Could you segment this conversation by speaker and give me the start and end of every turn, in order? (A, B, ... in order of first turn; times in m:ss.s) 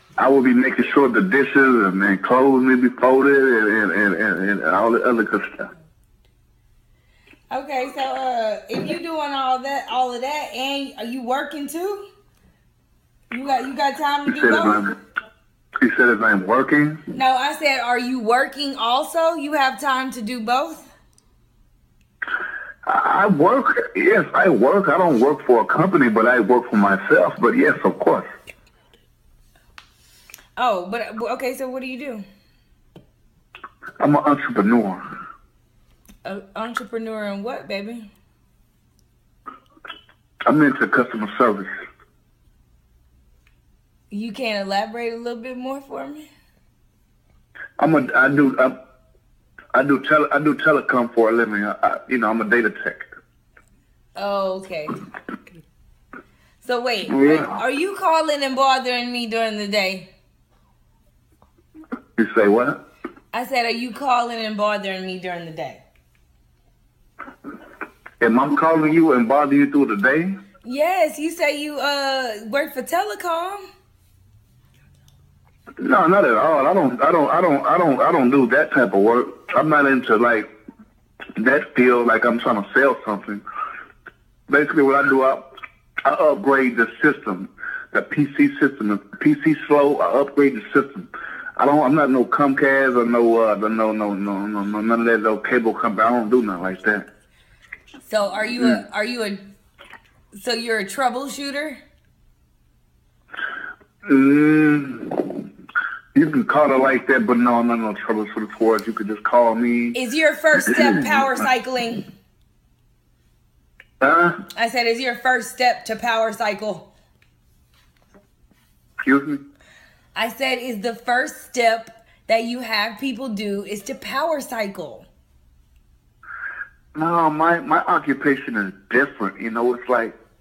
0:00.2-0:05.7 A
0:07.5-0:12.1 B
0:13.3-0:14.8 B
0:14.3-0:14.9 A
0:15.8-0:17.0 A
0:17.1-0:20.9 B
0:22.8-0:28.3 A
0:30.6-0:32.2 B
0:34.0-0:35.0 A
0:36.2-0:38.1 B
0:40.4-0:41.7 A
0:44.1-0:46.2 B
0:47.8-0:48.8 A
0:49.7-0:53.1 A
0:54.2-0:55.0 B
0:56.6-1:00.1 B
0:57.1-0:57.6 A
1:02.2-1:02.8 A
1:03.3-1:05.8 B
1:08.2-1:10.4 A
1:10.6-1:13.6 B
1:15.8-1:20.5 A
1:21.4-1:23.4 A
1:24.5-1:25.5 A
1:26.0-1:37.0 A
1:38.0-1:39.5 B
1:38.6-1:38.8 A
1:40.3-1:41.8 B
1:44.0-1:45.5 A
1:46.1-1:50.0 A
1:49.9-1:52.0 B
1:50.6-1:51.4 A
1:54.0-1:54.4 A
1:54.5-1:56.9 B
1:59.0-1:59.4 A
2:00.1-2:05.1 B
2:06.9-2:10.1 A